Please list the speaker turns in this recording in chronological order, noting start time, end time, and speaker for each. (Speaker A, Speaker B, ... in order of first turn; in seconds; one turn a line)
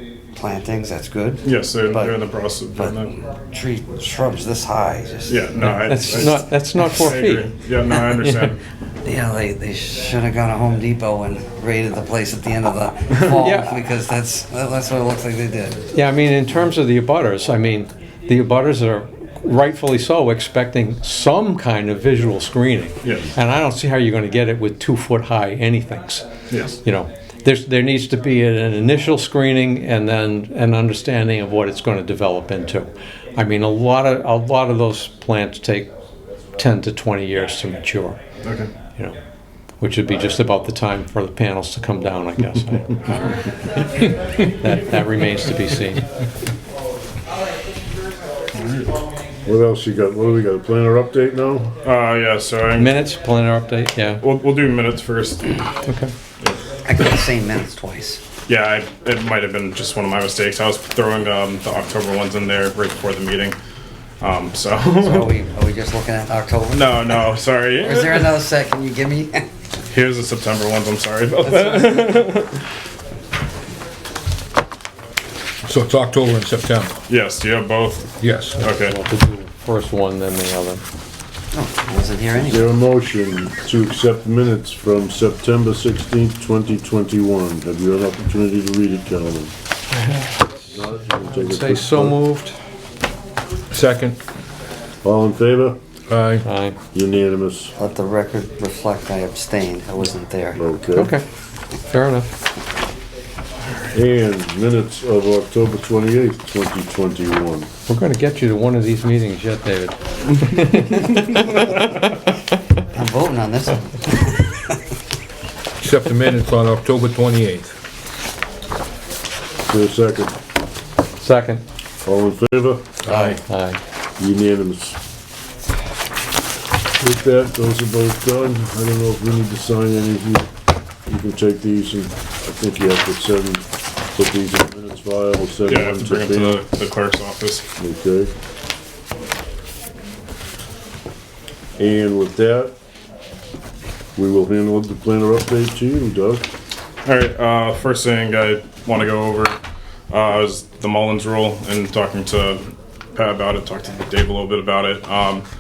Speaker A: 0.3-2.2
Speaker B: 1.4-3.1
Speaker A: 2.8-6.4
Speaker B: 5.3-8.6
Speaker C: 5.6-8.5
Speaker A: 9.0-15.9
Speaker C: 13.4-13.8
Speaker C: 15.9-26.2
Speaker B: 26.5-26.8
Speaker C: 26.8-35.9
Speaker C: 36.6-38.2
Speaker B: 38.4-38.7
Speaker C: 39.8-46.0
Speaker B: 48.5-49.0
Speaker D: 49.5-51.7
Speaker B: 51.8-52.9
Speaker C: 52.8-54.2
Speaker B: 54.2-55.7
Speaker C: 55.8-56.1
Speaker A: 56.8-58.2
Speaker B: 58.5-63.6
Speaker B: 64.2-65.3
Speaker A: 65.0-67.2
Speaker B: 66.7-68.3
Speaker A: 67.8-69.5
Speaker B: 69.9-72.6
Speaker E: 75.6-76.9
Speaker B: 77.1-79.0
Speaker E: 78.2-78.6
Speaker C: 78.7-80.8
Speaker A: 81.5-82.7
Speaker D: 82.4-89.5
Speaker C: 89.9-90.8
Speaker D: 90.7-92.2
Speaker C: 91.3-92.6
Speaker E: 93.7-94.2
Speaker D: 95.0-95.8
Speaker E: 96.1-96.5
Speaker C: 96.4-96.8
Speaker D: 96.9-97.7
Speaker A: 97.8-100.6
Speaker D: 100.6-101.1
Speaker C: 100.9-101.2
Speaker C: 101.9-102.3
Speaker D: 103.9-107.7
Speaker C: 107.9-112.0
Speaker A: 112.9-114.8
Speaker E: 115.8-117.7
Speaker D: 119.7-120.3
Speaker C: 121.2-121.6
Speaker D: 122.0-122.9
Speaker E: 123.0-123.4
Speaker A: 123.1-123.4
Speaker C: 123.4-123.8
Speaker D: 124.2-125.0
Speaker D: 127.0-130.4
Speaker D: 131.1-133.6
Speaker D: 134.1-136.6
Speaker B: 135.7-137.6
Speaker D: 137.8-138.3
Speaker D: 141.8-142.7
Speaker D: 144.2-146.4
Speaker B: 147.1-149.6
Speaker B: 150.1-155.4